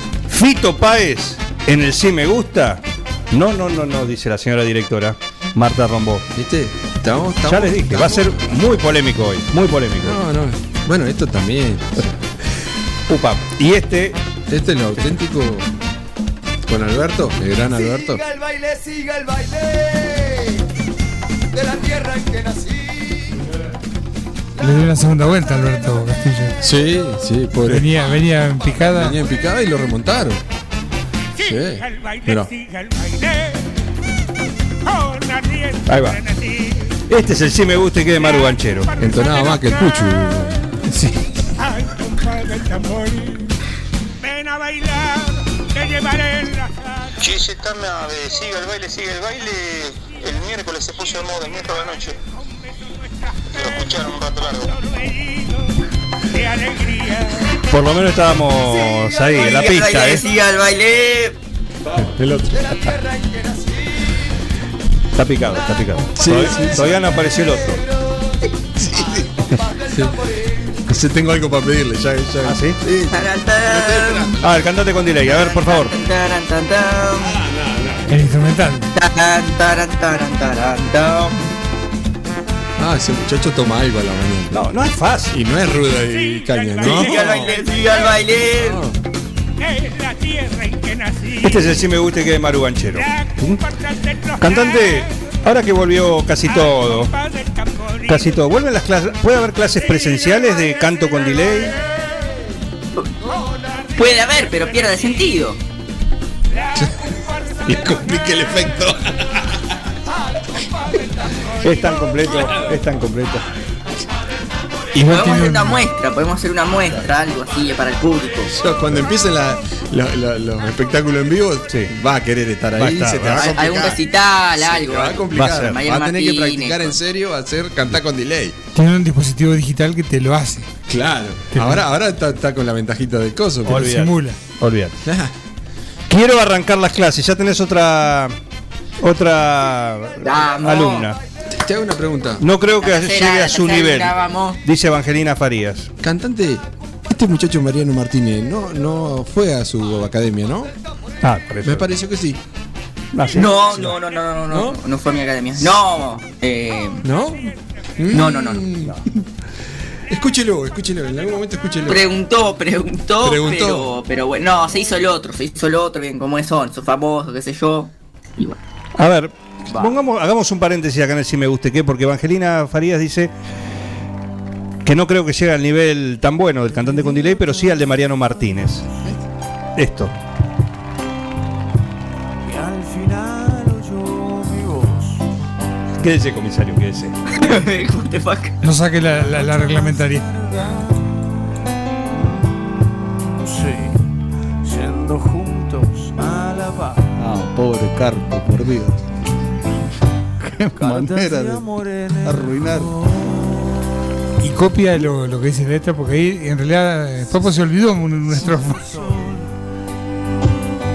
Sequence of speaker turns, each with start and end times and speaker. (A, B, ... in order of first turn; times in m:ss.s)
0:00.3-0:06.3 A
0:06.3-0:08.4 B
0:07.4-0:10.2 A
0:10.0-0:12.2 B
0:13.1-0:14.2 A
0:14.5-0:15.7 B
0:16.6-0:18.2 B
0:17.8-0:20.6 C
0:21.5-0:23.4 C
0:24.6-0:26.6 D
0:26.6-0:27.9 B
0:27.6-0:29.2 D
0:28.9-0:30.4 B
0:31.4-0:32.6 B
0:35.8-0:36.2 A
0:37.1-0:38.9 A
0:39.0-0:40.8 B
0:42.8-0:43.2 D
0:47.2-0:52.2 E
0:53.5-0:54.9 E
0:57.7-1:00.2 A
0:59.3-1:01.4 F
1:01.9-1:02.7 B
1:02.7-1:03.7 C
1:05.1-1:07.8 A
1:06.2-1:07.0 B
1:08.8-1:09.3 B
1:09.2-1:10.0 C
1:10.9-1:14.7 B
1:12.4-1:12.8 A
1:13.1-1:14.4 F
1:14.4-1:15.9 A
1:15.2-1:17.4 F
1:17.3-1:18.0 B
1:18.1-1:18.9 D
1:18.9-1:21.4 F
1:22.8-1:24.6 B
1:24.5-1:25.3 A
1:25.3-1:27.5 B
1:26.8-1:28.8 F
1:28.6-1:28.9 B
1:31.4-1:33.6 A
1:34.4-1:37.1 A
1:38.0-1:41.8 A
1:43.9-1:45.6 F
1:46.7-1:47.0 B
1:47.6-1:49.5 B
1:51.6-1:53.4 A
1:54.9-1:55.8 D
1:55.0-1:58.5 F
1:58.5-2:04.0 B
2:02.8-2:03.5 A
2:03.4-2:07.0 F
2:04.6-2:08.6 B
2:05.3-2:05.8 A
2:08.7-2:10.7 D
2:10.9-2:13.9 B
2:11.5-2:11.8 D
2:13.6-2:15.0 A
2:13.7-2:14.4 D
2:15.0-2:15.3 B
2:16.1-2:18.3 A
2:19.0-2:21.2 A
2:20.2-2:21.1 F
2:21.5-2:22.4 B
2:22.4-2:25.9 A
2:22.8-2:24.6 F
2:26.0-2:30.7 B
2:31.2-2:31.9 A
2:31.6-2:32.4 B
2:33.1-2:33.9 A
2:33.3-2:37.0 F
2:34.5-2:34.8 B
2:37.0-2:39.0 B
2:38.1-2:38.6 F
2:40.1-2:42.0 B
2:41.9-2:48.6 F
2:43.2-2:43.9 B
2:49.0-2:53.3 A
2:49.7-2:49.9 C
2:54.8-2:58.8 A
2:59.8-3:00.1 A
3:02.4-3:05.2 C
3:06.0-3:07.2 A
3:07.3-3:08.6 F
3:08.6-3:10.3 D
3:09.2-3:10.8 C
3:13.3-3:14.0 C
3:14.6-3:17.1 C
3:17.2-3:19.0 G
3:20.4-3:21.6 G
3:20.7-3:23.3 C
3:22.2-3:22.9 G
3:24.4-3:28.9 D
3:28.3-3:29.5 C